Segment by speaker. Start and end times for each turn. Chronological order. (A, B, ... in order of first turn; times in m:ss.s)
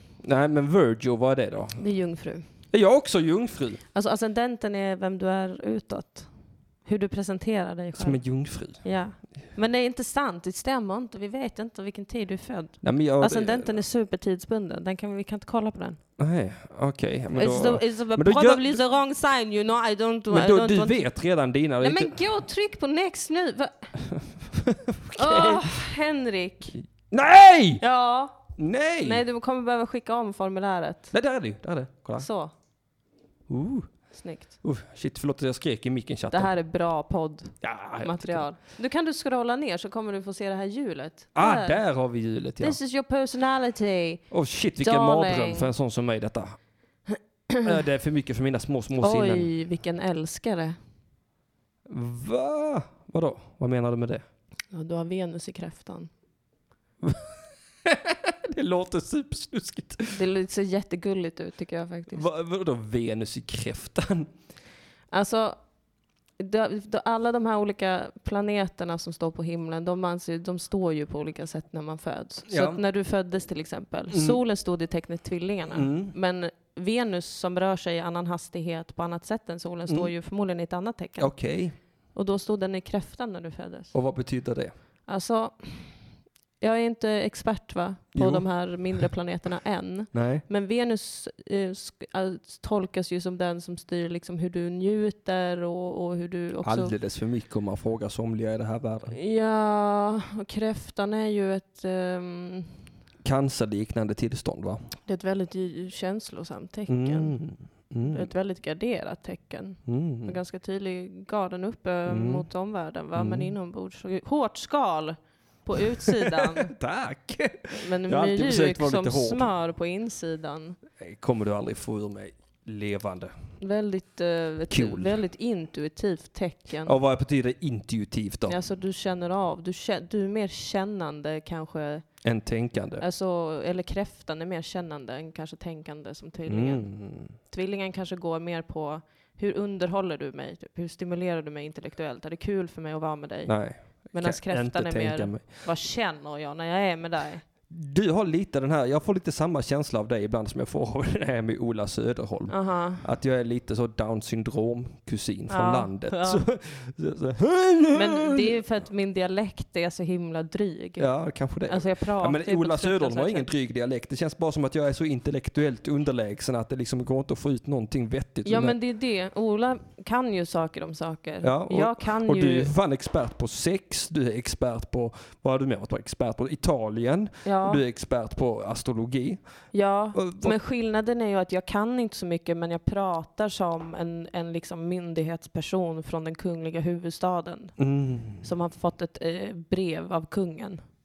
0:00.2-0:01.8 A
0:01.8-0:02.4 B
0:02.7-0:03.8 A
0:03.9-0:06.3 B
0:06.8-0:16.0 B
0:08.0-0:08.9 A
0:12.8-0:13.8 A
0:16.2-0:18.8 A
0:17.3-0:21.0 B
0:20.3-0:22.2 A
0:21.8-0:23.9 B
0:24.3-0:25.7 A
0:25.2-0:26.8 B
0:26.8-0:27.8 A
0:27.8-0:31.1 B
0:28.6-0:29.2 A
0:31.1-0:32.3 A
0:32.2-0:32.5 B
0:33.5-0:34.0 A
0:34.1-0:34.5 B
0:34.6-0:36.5 A
0:36.3-0:41.8 B
0:37.6-0:38.5 A
0:41.4-0:42.8 A
0:42.6-0:45.7 B
0:44.3-0:46.6 A
0:47.6-0:49.5 A
0:49.0-0:50.8 B
0:51.9-0:54.2 A
0:54.7-0:56.1 B
0:57.0-0:57.4 A
0:57.9-1:00.2 A
1:00.1-1:02.2 B
1:02.1-1:04.3 A
1:05.1-1:05.6 B
1:06.4-1:21.5 B
1:12.5-1:12.8 A
1:14.1-1:14.4 A
1:15.7-1:16.1 A
1:21.2-1:21.8 A
1:22.1-1:23.9 B
1:23.9-1:24.7 A
1:25.1-1:26.0 B
1:26.6-1:36.9 B
1:28.1-1:29.1 A
1:30.1-1:30.4 A
1:36.6-1:39.1 A
1:39.1-1:42.7 B
1:43.2-1:44.8 A
1:45.0-1:47.4 B
1:46.9-1:48.3 A
1:48.1-1:56.7 B
1:49.9-1:50.4 A
1:52.1-1:52.4 A
1:53.2-1:53.5 A
1:55.9-1:59.5 A
1:57.8-2:00.8 B
2:01.0-2:03.3 A
2:03.6-2:06.9 B
2:04.7-2:05.2 A
2:06.9-2:08.6 A
2:08.5-2:12.1 B
2:12.2-2:13.0 A
2:13.0-2:27.4 B
2:16.5-2:17.4 A
2:23.5-2:25.7 A
2:27.7-2:38.4 A
2:32.5-2:33.1 B
2:35.5-2:36.4 B
2:37.9-2:41.1 B
2:41.0-2:48.8 A
2:41.7-2:43.5 B
2:48.4-2:52.7 B
2:51.4-3:00.5 A
2:57.4-2:57.8 B
2:59.7-3:10.8 B
3:07.8-3:08.5 A